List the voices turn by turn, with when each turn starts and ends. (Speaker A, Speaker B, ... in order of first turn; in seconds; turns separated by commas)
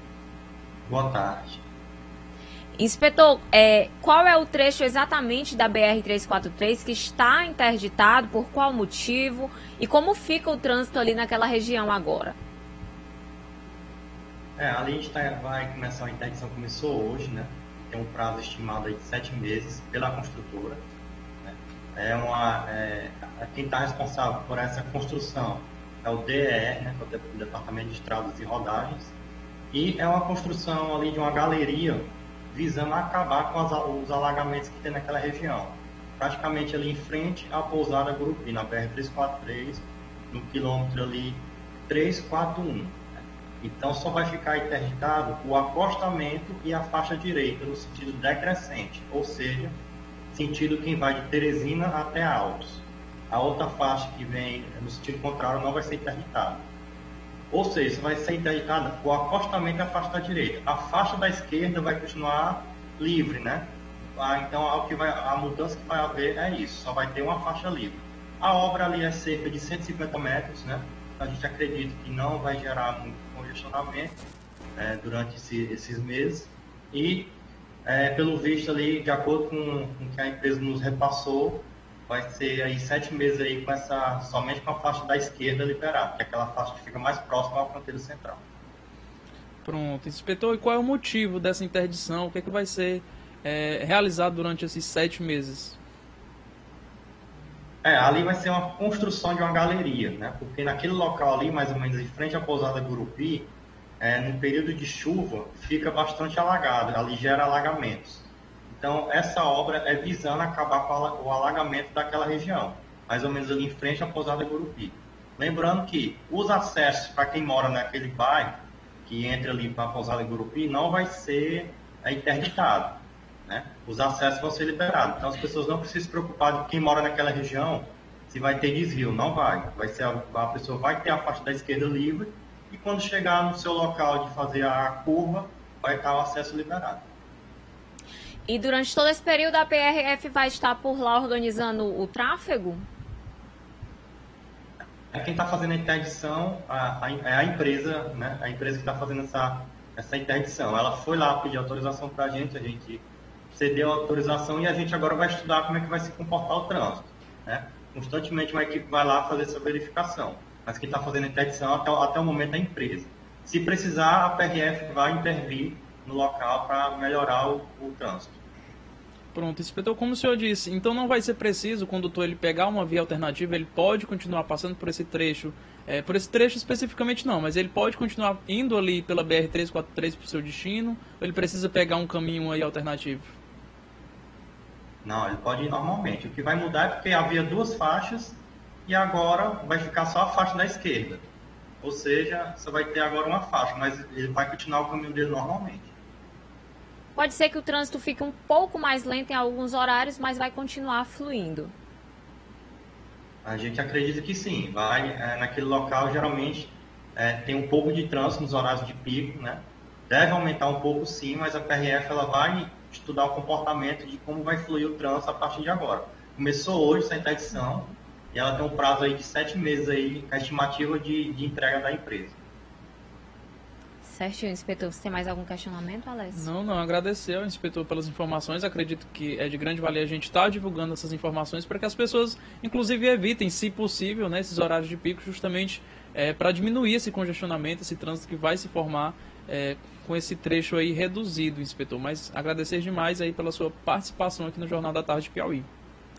Speaker A: 0.9-1.6, Speaker B: 2.8-12.3, Speaker A: 14.6-20.8, Speaker A: 21.4-29.1, Speaker A: 29.7-43.0, Speaker A: 43.6-49.8, Speaker A: 50.3-56.7, Speaker A: 57.5-74.2, Speaker A: 74.8-88.4, Speaker C: 89.6-95.8, Speaker A: 97.8-137.1, Speaker B: 138.5-142.8, Speaker A: 145.1-168.4, Speaker C: 169.3-183.3, Speaker A: 185.0-191.3, Speaker A: 191.8-195.9, Speaker B: 197.2-201.7, Speaker A: 203.4-222.4, Speaker B: 224.0-226.5, Speaker C: 226.3-245.7